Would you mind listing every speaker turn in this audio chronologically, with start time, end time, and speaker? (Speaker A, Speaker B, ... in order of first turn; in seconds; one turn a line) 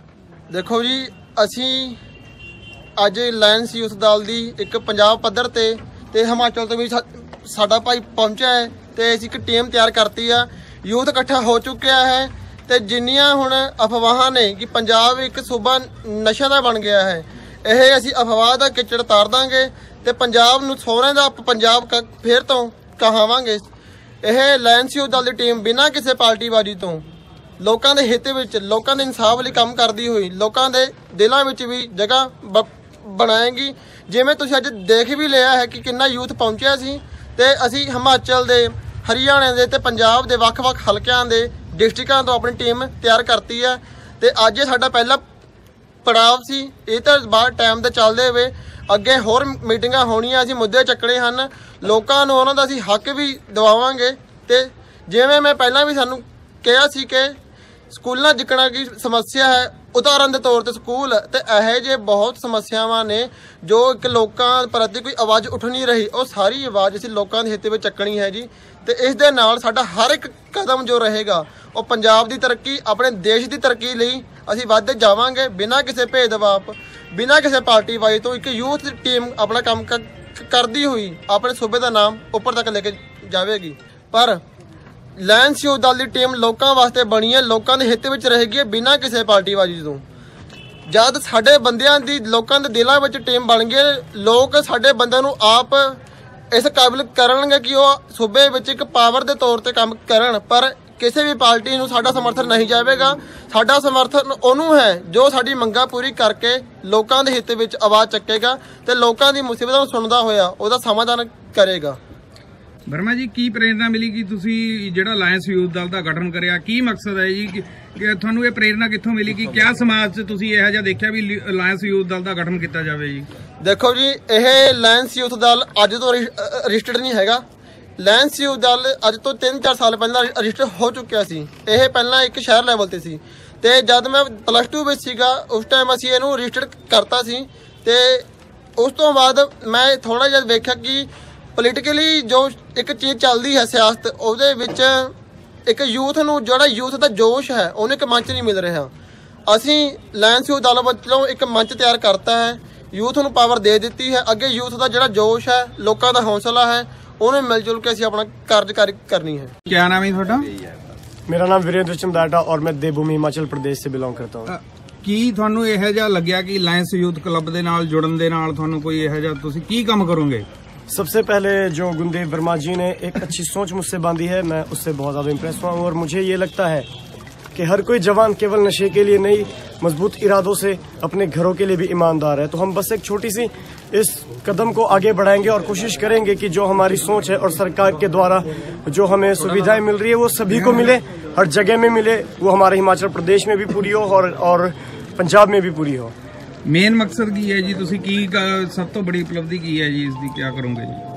Speaker A: 0.5-2.0
Speaker A: 3.0-23.6
Speaker A: 24.2-27.1
Speaker A: 27.6-45.2
Speaker A: 46.0-57.3
Speaker A: 57.9-84.4
Speaker A: 85.2-90.0
Speaker A: 90.9-96.0
Speaker A: 96.5-112.0
Speaker B: 112.9-123.3
Speaker A: 123.6-127.4
Speaker A: 128.0-138.2
Speaker A: 138.8-145.1
Speaker A: 145.7-148.9
Speaker A: 149.5-159.5
Speaker B: 159.7-160.5
Speaker C: 161.3-164.5
Speaker B: 164.5-170.4
Speaker C: 170.9-176.9
Speaker C: 177.5-196.1
Speaker B: 196.7-201.0